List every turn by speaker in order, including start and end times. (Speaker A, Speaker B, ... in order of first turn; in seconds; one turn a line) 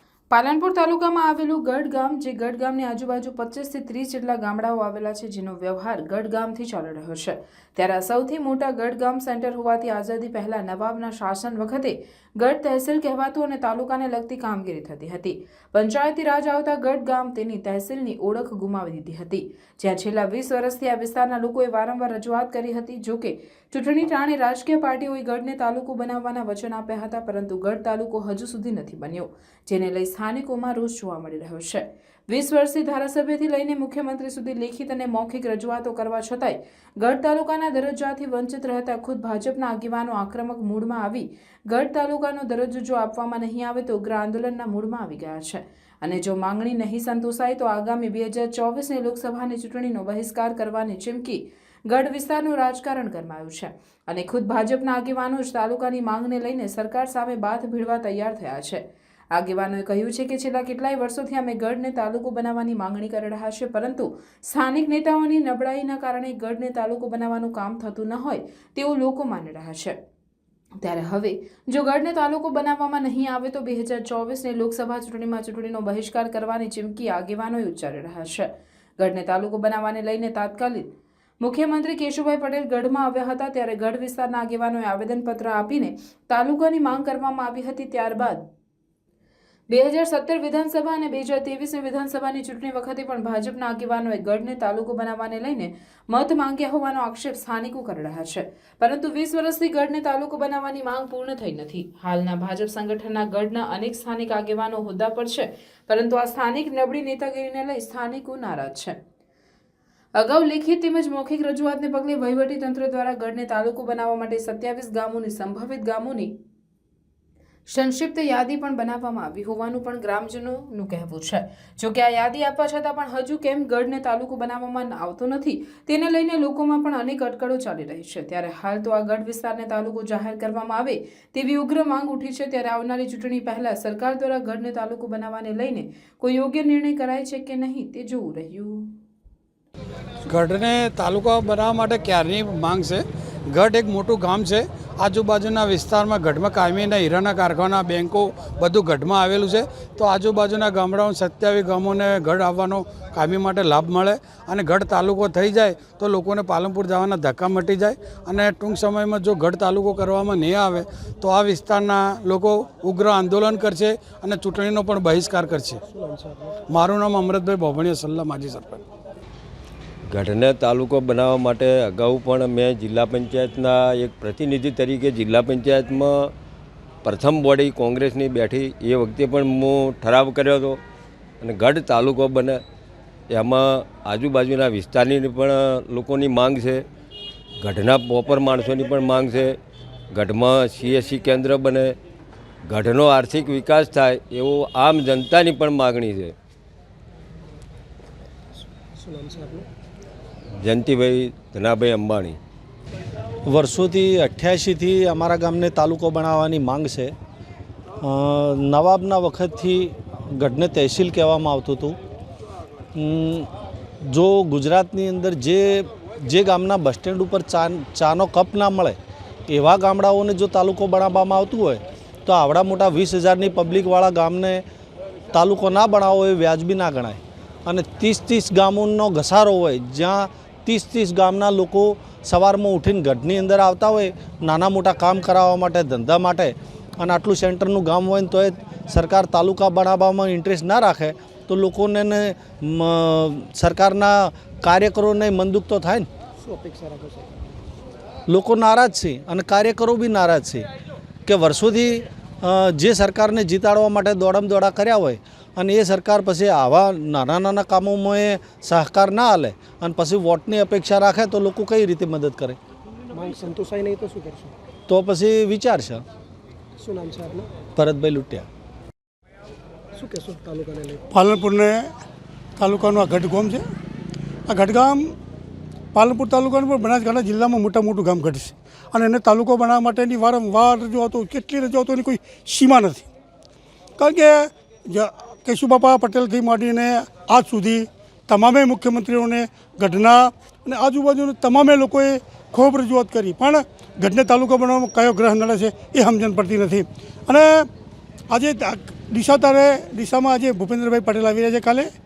Speaker A: 0.3-58.8
Speaker A: 59.3-70.0
Speaker A: 70.8-80.9
Speaker A: 81.4-88.4
Speaker A: 89.7-109.0
Speaker A: 110.2-116.3
Speaker A: 117.7-138.9
Speaker B: 140.3-165.8
Speaker C: 165.9-166.6
Speaker B: 166.7-168.8
Speaker D: 170.1-176.3
Speaker D: 177.0-180.8
Speaker D: 181.4-182.6
Speaker D: 183.3-186.8
Speaker D: 187.6-189.6
Speaker D: 190.1-191.9
Speaker D: 192.7-196.3
Speaker C: 198.9-199.7
Speaker D: 200.6-202.4
Speaker E: 203.5-207.1
Speaker E: 208.0-212.0
Speaker E: 212.9-213.5
Speaker E: 214.1-219.0
Speaker E: 219.5-224.6
Speaker E: 225.3-246.1
Speaker C: 246.4-247.5
Speaker E: 248.3-250.7
Speaker E: 251.3-262.6
Speaker C: 263.1-264.6
Speaker E: 264.9-266.0
Speaker C: 266.8-267.5
Speaker E: 267.8-268.5
Speaker C: 269.9-271.0
Speaker F: 271.1-271.9
Speaker F: 272.6-273.6
Speaker F: 274.5-275.1
Speaker F: 275.9-283.1
Speaker F: 284.0-297.7
Speaker F: 298.3-301.9